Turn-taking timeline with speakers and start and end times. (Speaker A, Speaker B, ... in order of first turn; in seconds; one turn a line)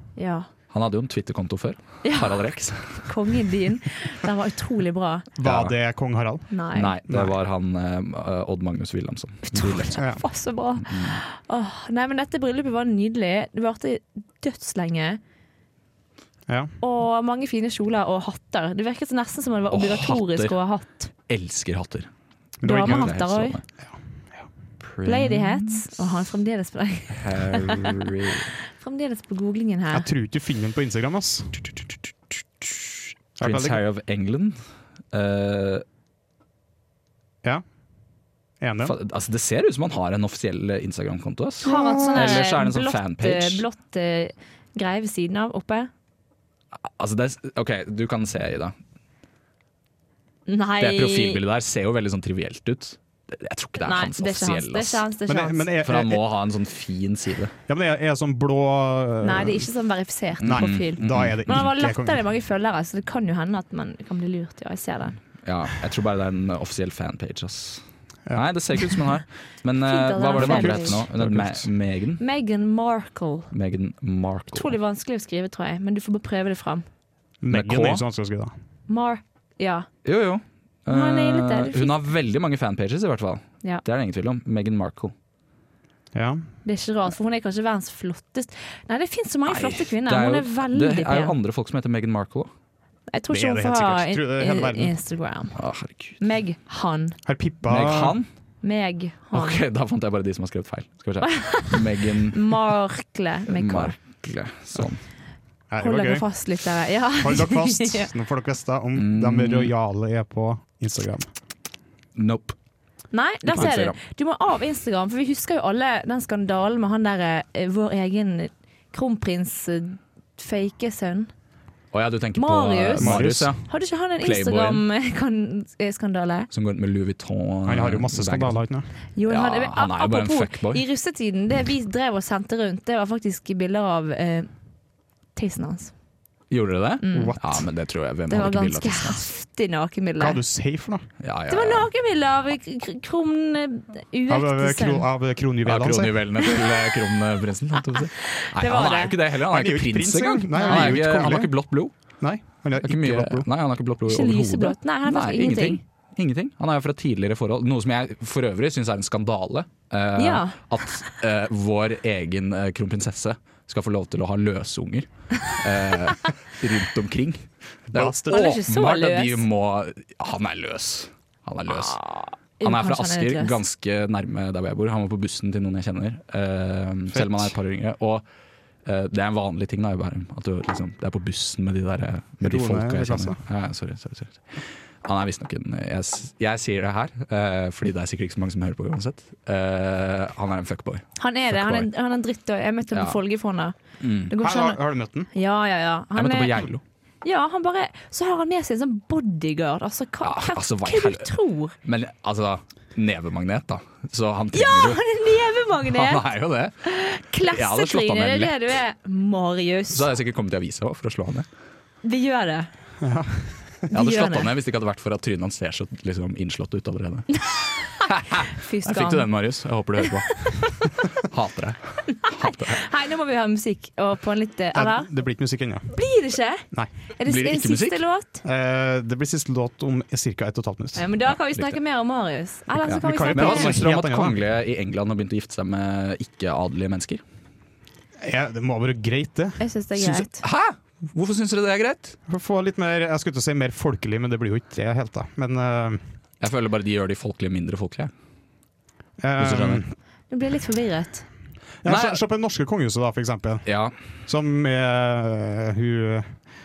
Speaker A: 0.2-0.5
Speaker B: 0.7-3.1
Speaker A: 2.0-5.3
Speaker C: 5.4-6.5
Speaker B: 5.4-5.8
Speaker A: 6.5-6.9
Speaker B: 6.8-10.1
Speaker C: 7.1-7.3
Speaker A: 9.4-15.2
Speaker C: 9.9-10.2
Speaker B: 10.8-11.2
Speaker C: 16.5-16.7
Speaker A: 16.8-21.1
Speaker B: 19.7-20.6
Speaker B: 21.3-22.1
Speaker C: 22.6-23.1
Speaker A: 22.6-23.6
Speaker B: 22.6-23.6
Speaker B: 24.8-26.1
Speaker A: 25.0-28.1
Speaker B: 27.2-28.5
Speaker A: 28.6-30.1
Speaker C: 29.9-31.9
Speaker C: 33.4-33.8
Speaker B: 33.4-34.6
Speaker B: 35.1-35.8
Speaker C: 38.6-39.0
Speaker B: 38.8-43.6
Speaker A: 41.6-45.9
Speaker C: 41.7-42.3
Speaker B: 46.8-48.8
Speaker A: 50.5-51.4
Speaker B: 50.8-55.0
Speaker A: 53.8-55.7
Speaker C: 55.3-56.2
Speaker B: 55.8-57.5
Speaker C: 57.7-59.7
Speaker A: 59.2-65.2
Speaker C: 60.4-62.2
Speaker B: 60.4-61.4
Speaker B: 65.4-72.2
Speaker A: 69.8-71.0
Speaker C: 70.4-71.7
Speaker A: 72.2-73.5
Speaker B: 73.5-74.8
Speaker A: 74.5-76.9
Speaker C: 77.4-78.5
Speaker B: 77.5-78.0
Speaker A: 78.9-79.9
Speaker B: 80.0-85.1
Speaker A: 80.9-82.0
Speaker C: 86.1-86.5
Speaker A: 86.7-91.3
Speaker B: 89.5-92.5
Speaker A: 93.1-95.6
Speaker C: 93.3-94.9
Speaker B: 95.5-96.2
Speaker A: 96.2-97.2
Speaker C: 97.3-98.2
Speaker B: 97.7-98.3
Speaker A: 98.6-99.6
Speaker B: 99.3-102.6
Speaker A: 101.2-104.0
Speaker B: 103.5-105.0
Speaker C: 105.7-106.3
Speaker A: 105.8-108.1
Speaker C: 107.2-111.3
Speaker B: 109.0-109.7
Speaker B: 112.2-112.5
Speaker A: 113.1-121.3
Speaker B: 113.5-114.0
Speaker B: 121.9-124.8
Speaker A: 122.3-126.5
Speaker C: 123.0-123.5
Speaker B: 126.5-128.6
Speaker C: 127.7-128.9
Speaker A: 129.2-134.5
Speaker B: 129.3-130.8
Speaker A: 135.4-135.9
Speaker B: 136.5-139.3
Speaker A: 137.0-137.5
Speaker C: 137.1-137.5
Speaker A: 138.3-140.4
Speaker C: 140.2-141.1
Speaker B: 141.2-141.9
Speaker A: 141.5-145.1
Speaker C: 144.3-146.3
Speaker B: 145.7-151.9
Speaker A: 147.9-149.2
Speaker C: 149.5-151.5
Speaker A: 150.5-150.9
Speaker C: 152.2-153.5
Speaker B: 152.8-172.0
Speaker A: 154.1-155.8
Speaker A: 160.2-161.1
Speaker C: 167.9-168.4
Speaker A: 168.3-169.5
Speaker A: 171.7-173.6
Speaker B: 172.6-178.2
Speaker C: 177.1-177.6
Speaker B: 178.8-191.9
Speaker C: 182.4-183.4
Speaker A: 191.2-193.8
Speaker B: 194.0-194.3
Speaker A: 194.3-196.5
Speaker C: 194.4-195.3
Speaker B: 196.2-196.8
Speaker A: 197.2-201.8
Speaker B: 200.2-205.1
Speaker A: 204.5-206.3
Speaker B: 205.8-206.9
Speaker A: 206.8-210.1
Speaker B: 207.4-208.8
Speaker B: 209.9-211.5
Speaker A: 212.0-212.7
Speaker C: 213.0-213.8
Speaker A: 213.9-214.5
Speaker B: 213.9-217.5
Speaker A: 217.4-219.3
Speaker B: 218.1-222.8
Speaker A: 222.2-225.1
Speaker C: 224.7-225.9
Speaker A: 225.9-228.4
Speaker B: 227.2-228.0
Speaker C: 228.4-231.1
Speaker A: 231.0-233.8
Speaker C: 232.8-234.4
Speaker B: 232.9-237.2
Speaker C: 238.2-239.7
Speaker A: 239.6-240.4
Speaker B: 240.0-242.2
Speaker C: 242.3-246.0
Speaker B: 246.4-248.1
Speaker C: 249.2-249.9
Speaker B: 249.4-249.8
Speaker A: 250.3-251.3
Speaker C: 251.8-256.4
Speaker B: 251.8-252.2
Speaker B: 253.7-254.0